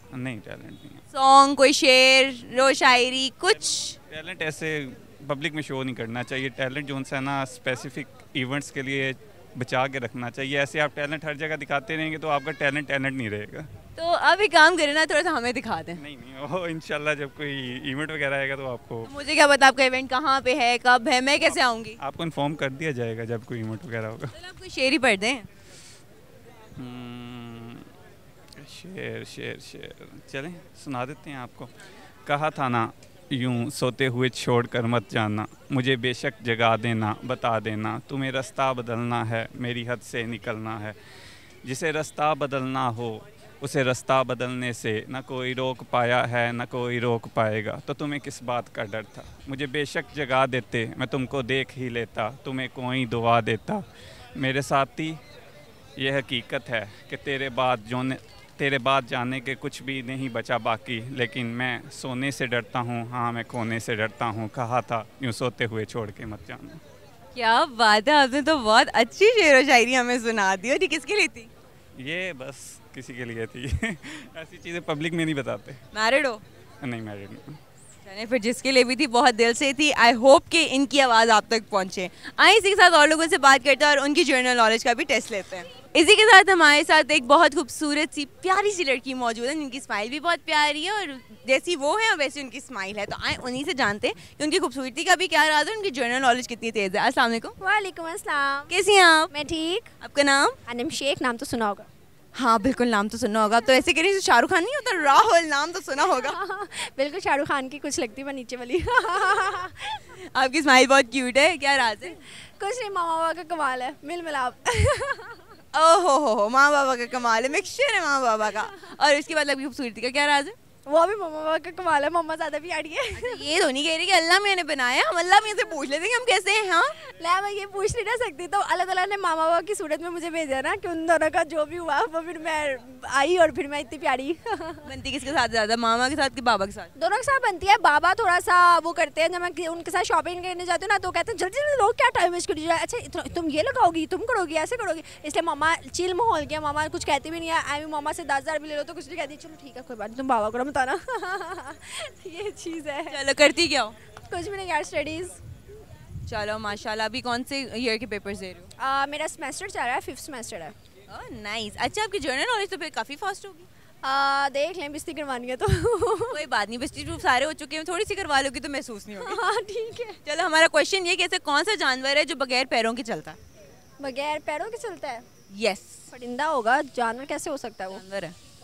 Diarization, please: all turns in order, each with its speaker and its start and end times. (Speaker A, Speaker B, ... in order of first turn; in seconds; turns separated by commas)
Speaker A: 0.1-1.0, Speaker B: 1.1-3.9, Speaker A: 4.1-13.7, Speaker B: 14.0-16.0, Speaker A: 16.0-19.1, Speaker B: 19.1-22.0, Speaker A: 22.0-24.3, Speaker B: 24.3-25.5, Speaker A: 26.8-27.9, Speaker A: 28.6-31.7, Speaker A: 32.2-40.9, Speaker A: 41.6-53.8, Speaker A: 54.4-55.2, Speaker A: 56.0-66.8, Speaker B: 67.3-71.5, Speaker A: 72.0-75.8, Speaker B: 75.9-76.4, Speaker A: 76.8-77.6, Speaker B: 78.0-97.5, Speaker C: 97.6-98.7, Speaker B: 98.7-99.3, Speaker C: 99.3-99.9, Speaker B: 100.0-100.6, Speaker C: 100.7-101.9, Speaker B: 102.3-106.4, Speaker C: 106.3-109.9, Speaker B: 110.3-112.2, Speaker C: 112.6-115.4, Speaker B: 115.7-120.5, Speaker C: 120.8-123.4, Speaker B: 123.2-127.0, Speaker C: 127.1-134.8, Speaker B: 134.8-136.9, Speaker C: 137.0-153.2, Speaker B: 153.1-153.9, Speaker C: 154.3-155.4, Speaker B: 156.3-158.7, Speaker C: 158.8-160.7, Speaker B: 161.1-163.7, Speaker C: 164.0-166.4, Speaker B: 166.3-169.4, Speaker C: 169.1-170.2, Speaker B: 170.2-173.4, Speaker C: 174.0-175.3, Speaker B: 175.5-176.1, Speaker C: 176.1-178.0, Speaker B: 177.9-178.3